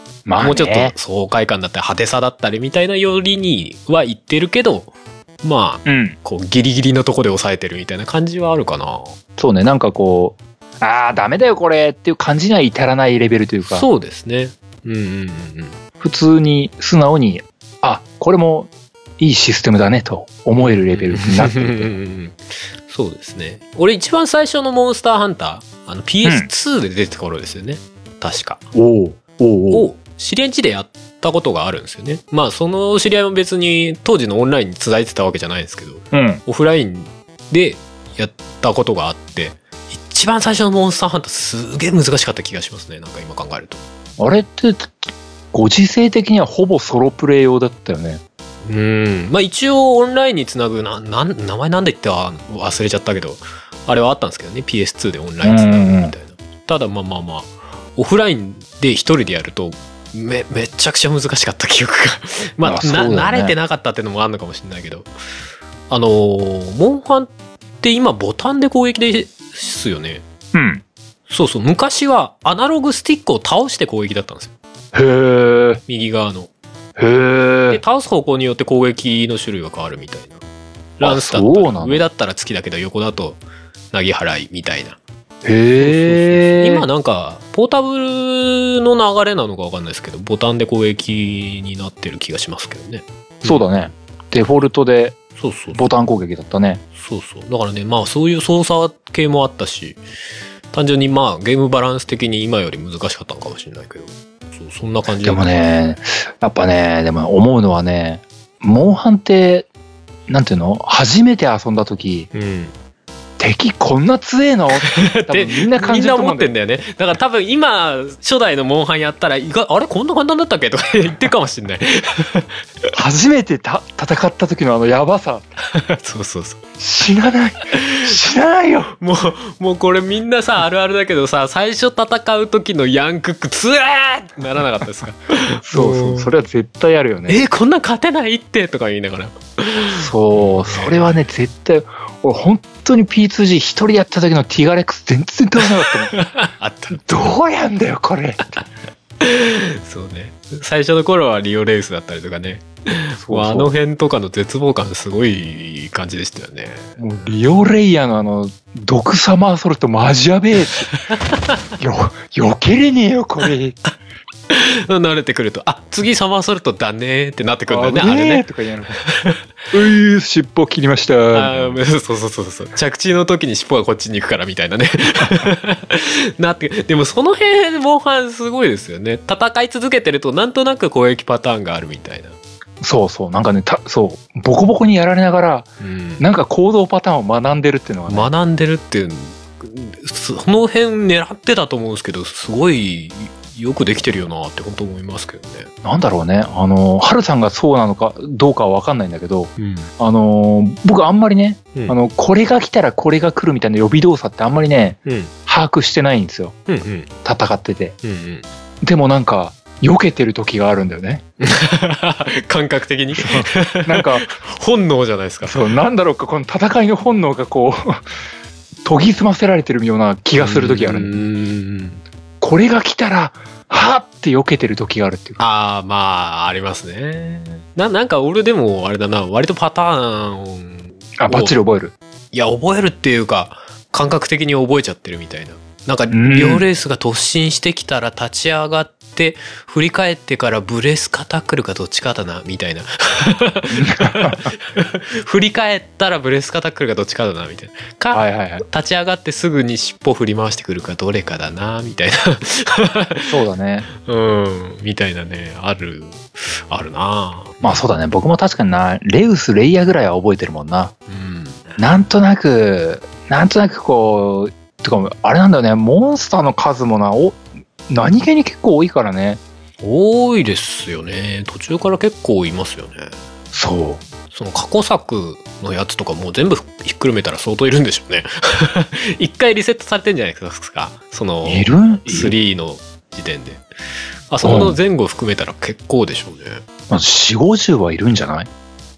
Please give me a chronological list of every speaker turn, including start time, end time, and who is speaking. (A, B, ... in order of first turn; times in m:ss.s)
0:00.3-0:00.9 A
0:00.4-0:04.9 B
0:05.4-0:09.2 B
0:05.9-0:06.2 A
0:09.4-0:13.9 A
0:13.6-0:15.8 B
0:16.0-0:22.0 A
0:20.6-0:28.6 B
0:28.7-0:29.9 A
0:29.7-0:43.8 B
0:36.1-0:36.4 A
0:44.2-0:48.2 A
0:48.6-1:05.1 B
0:55.4-0:56.1 A
1:02.6-1:03.6 A
1:05.9-1:10.2 B
1:10.5-1:10.8 A
1:11.3-1:14.5 B
1:14.9-1:15.8 A
1:15.9-1:16.5 B
1:17.0-1:17.8 A
1:17.7-1:20.4 B
1:21.0-1:23.4 B
1:21.0-1:22.1 A
1:23.9-1:25.0 B
1:25.4-1:26.9 A
1:25.8-1:33.7 B
1:33.4-1:35.2 A
1:35.4-1:35.9 B
1:35.7-1:36.8 A
1:37.0-1:40.0 B
1:40.7-1:45.5 B
1:45.2-1:49.7 A
1:50.3-1:52.3 A
1:52.3-1:52.8 B
1:53.4-1:56.5 A
1:54.7-2:02.5 B
2:02.9-2:05.4 A
2:05.7-2:06.6 B
2:06.8-2:08.9 A
2:07.7-2:08.2 B
2:09.0-2:16.3 B
2:15.7-2:17.4 A
2:17.3-2:21.3 B
2:20.0-2:26.1 A
2:25.8-2:27.3 B
2:27.0-2:28.4 A
2:29.2-2:37.3 B
2:33.2-2:33.7 A
2:37.0-2:40.9 A
2:40.9-2:41.6 B
2:41.8-2:43.8 A
2:44.5-2:48.5 B
2:47.7-2:49.0 A
2:49.0-2:49.4 B
2:49.7-2:51.8 A
2:51.3-3:02.4 B
3:02.8-3:05.7 A
3:05.8-3:06.2 B
3:06.2-3:08.3 A
3:08.1-3:15.7 B
3:15.8-3:26.6 A
3:19.6-3:19.9 B
3:25.1-3:25.3 B
3:26.7-3:27.1 B
3:27.2-3:28.0 A
3:28.0-3:28.4 B
3:28.8-3:31.2 A
3:31.4-3:35.7 B
3:33.2-3:34.3 A
3:35.4-3:38.0 A
3:38.8-3:41.2 A
3:40.4-3:42.0 B
3:42.4-3:45.4 A
3:45.4-3:51.6 B
3:51.2-3:51.9 A
3:52.3-4:13.4 B
3:56.1-3:56.7 A
4:03.7-4:04.5 A
4:08.1-4:08.6 A
4:13.3-4:13.9 A
4:14.0-4:17.8 B
4:17.6-4:20.9 A
4:21.1-4:21.8 B
4:21.8-4:29.4 A
4:29.8-4:33.2 B
4:33.5-4:34.0 A
4:34.3-4:43.6 B
4:41.4-4:42.4 A
4:44.3-4:46.6 B
4:44.4-4:44.8 A
4:46.9-4:48.5 A